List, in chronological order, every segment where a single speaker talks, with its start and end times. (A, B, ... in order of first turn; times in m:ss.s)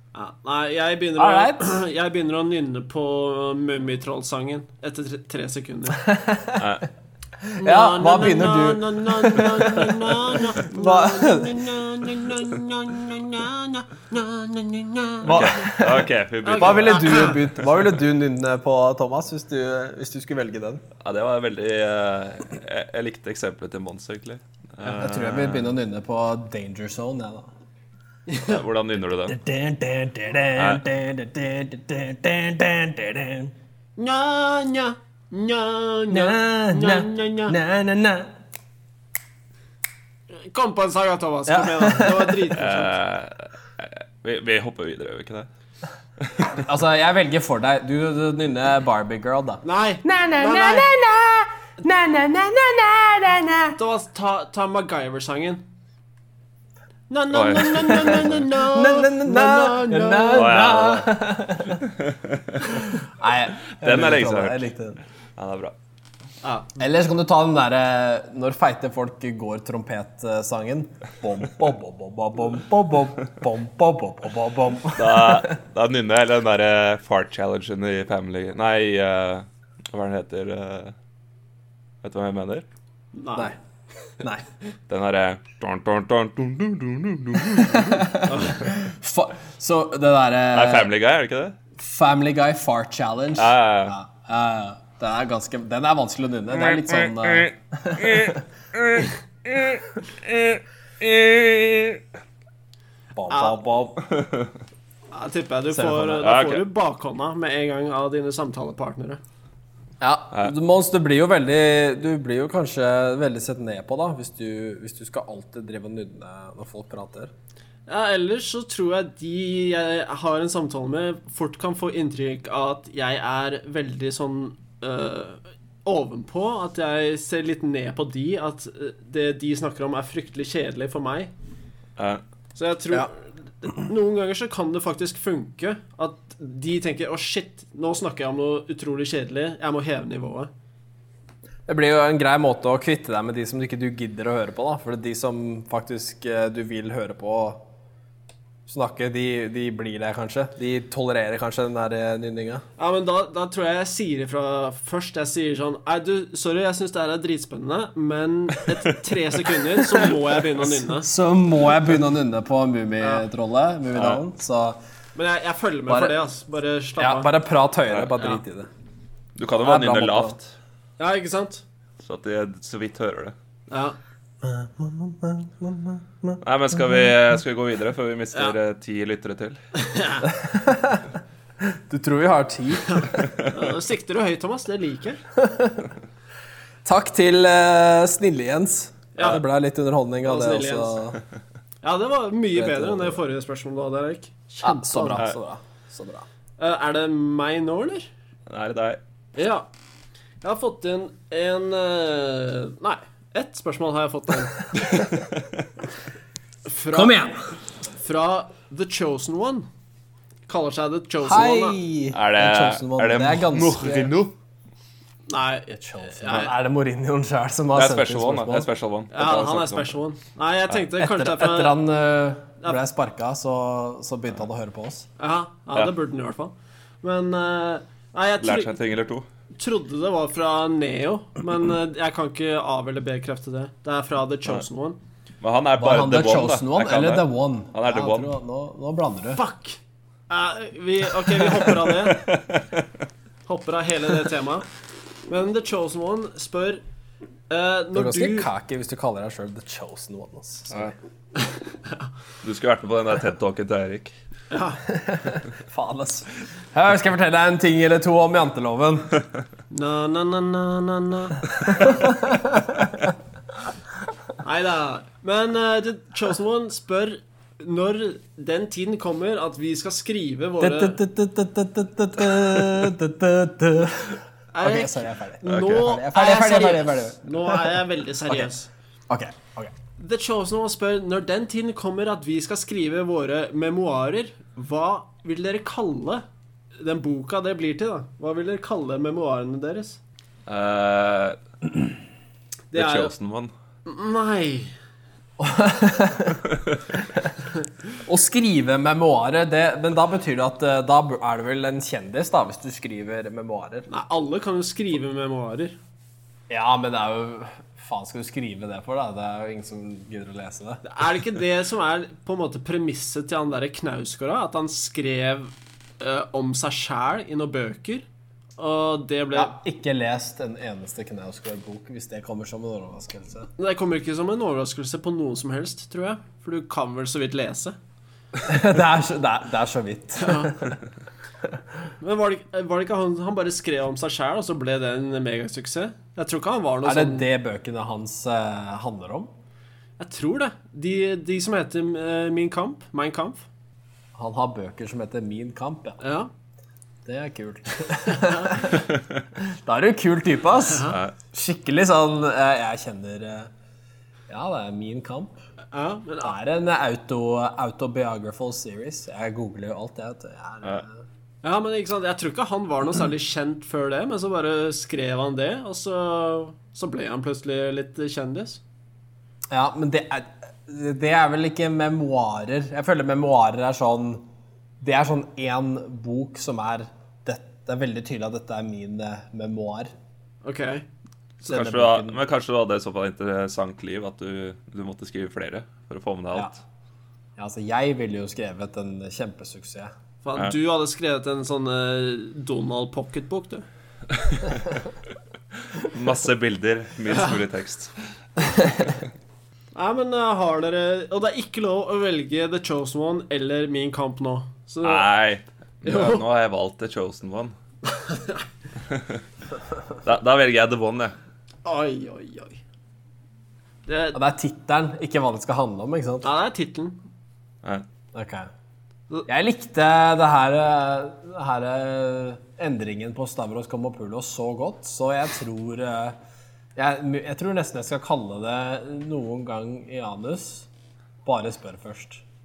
0:00.1-0:06.1 A
0:01.2-0:01.7 B
0:06.0-0:06.7 B
0:06.6-0:06.9 C
0:07.4-0:11.6 B
0:07.6-0:15.7 A
0:15.2-0:17.7 C
0:15.2-0:20.8 B
0:16.4-0:17.4 A
0:21.0-0:25.7 C
0:24.8-0:27.5 B
0:28.3-0:28.6 A
0:28.4-0:29.4 C
0:29.3-0:33.5 B
0:30.6-0:30.8 C
0:34.0-0:37.6 A
0:36.1-0:38.3 B
0:40.3-0:43.0 A
0:41.5-0:42.5 B
0:42.6-0:45.5 C
0:46.2-0:46.6 C
0:46.5-0:53.8 B
0:49.6-0:50.9 A
0:53.8-0:55.6 A
0:57.1-1:00.5 A
0:57.3-0:58.4 C
0:58.6-1:01.8 B
1:00.3-1:01.1 C
1:01.8-1:03.0 C
1:02.7-1:05.0 B
1:03.7-1:04.7 C
1:05.4-1:05.7 C
1:06.4-1:06.7 A
1:06.8-1:15.5 B
1:15.0-1:21.0 C
1:22.0-1:22.6 C
1:23.1-1:23.5 A
1:24.2-1:24.4 B
1:24.9-1:28.1 C
1:27.5-1:30.9 B
1:28.3-1:28.6 A
1:30.5-1:31.6 C
1:31.8-1:38.4 B
1:33.4-1:34.0 C
1:36.8-1:42.0 C
1:43.1-1:44.0 B
1:43.3-1:43.6 A
1:44.1-1:44.5 C
1:45.1-1:49.2 A
1:45.7-1:46.2 B
1:46.2-1:46.6 C
1:50.0-1:57.3 B
1:57.9-2:11.3 A
2:12.0-2:12.2 C
2:12.6-2:20.5 A
2:21.7-2:27.6 B
2:28.7-2:32.6 B
2:32.8-2:41.1 A
2:41.0-2:44.8 B
2:43.0-2:43.3 A
2:43.9-2:44.2 C
2:45.2-2:47.3 A
2:45.9-2:46.1 B
2:47.0-2:48.7 B
2:47.9-2:48.1 C
2:49.4-2:50.5 C
2:49.6-2:50.4 B
2:51.0-2:51.6 A
2:52.0-2:53.3 C
2:53.7-2:54.0 A
2:54.4-2:56.4 B
2:56.4-2:59.6 C
2:59.8-3:00.3 A
3:00.3-3:01.1 B
3:01.6-3:03.3 B
3:02.9-3:05.2 A
3:05.4-3:05.9 B
3:06.8-3:11.2 B
3:09.2-3:09.4 A
3:10.2-3:11.1 A
3:11.8-3:15.2 A
3:12.5-3:13.2 B
3:14.6-3:16.3 B
3:16.6-3:18.1 A
3:18.5-3:19.0 C
3:19.4-3:19.7 A
3:20.4-3:25.1 A
3:26.7-3:27.2 A
3:26.9-3:27.5 B
3:27.9-3:29.7 A
3:30.5-3:31.8 A
3:31.2-3:34.1 B
3:32.1-3:34.3 C
3:35.3-3:36.5 A
3:35.7-3:38.7 B
3:37.7-3:40.0 C
3:39.1-3:41.8 A
3:41.0-3:45.1 B
3:45.2-3:48.7 A
3:48.4-3:49.3 C
3:49.6-3:55.0 A
3:55.4-3:58.3 C
3:55.8-3:59.4 B
3:59.3-4:02.2 A
4:02.0-4:02.8 C
4:03.5-4:04.7 A
4:05.3-4:06.8 A
4:07.5-4:08.5 A
4:08.0-4:11.0 B
4:12.4-4:14.1 C
4:14.5-4:14.8 A
4:14.9-4:19.1 B
4:19.7-4:21.9 A
4:21.7-4:23.0 B
4:24.4-4:31.0 A
4:30.6-4:38.5 B
4:34.5-4:38.7 A
4:35.4-4:35.9 C
4:39.1-4:39.7 B
4:40.0-4:46.2 A
4:46.8-4:50.0 A
4:50.4-4:51.4 C
4:52.7-4:53.1 A
4:52.7-4:53.5 C
4:53.8-4:54.7 A
4:55.4-4:57.3 B
4:58.0-5:03.9 B
5:03.9-5:05.8 A
5:06.5-5:10.8 B
5:10.8-5:18.0 A
5:18.6-5:19.6 A
5:19.3-5:23.5 B
5:23.6-5:27.8 A
5:28.4-5:30.8 B
5:30.2-5:30.6 A
5:32.0-5:37.3 A
5:36.8-5:39.3 B
5:40.0-5:43.4 A
5:44.1-5:46.0 B
5:46.0-5:46.3 A
5:47.0-5:53.5 B
5:48.0-5:48.7 A
5:50.7-5:51.0 A
5:50.9-5:51.1 C
5:54.3-5:55.4 B
5:55.7-5:56.4 A
5:56.2-6:01.0 B
6:01.4-6:08.6 A
6:09.5-6:14.3 B
6:14.8-6:19.9 B
6:20.4-6:20.9 A
6:21.4-6:26.6 C
6:21.4-6:22.2 B
6:27.4-6:29.9 B
6:30.2-6:33.6 A
6:34.1-6:34.8 C
6:35.7-6:37.9 C
6:38.5-6:39.0 C
6:39.7-6:45.1 A
6:44.8-6:47.6 C
6:45.8-6:46.2 A
6:47.9-6:48.4 A
6:48.9-6:49.2 C
6:50.0-6:51.1 C
6:51.6-6:52.6 A
6:53.9-6:54.2 A
6:54.1-6:56.3 B
6:56.2-6:57.0 A
6:58.1-6:58.5 B
6:59.3-7:06.2 B
7:06.8-7:10.7 B
7:11.2-7:12.2 B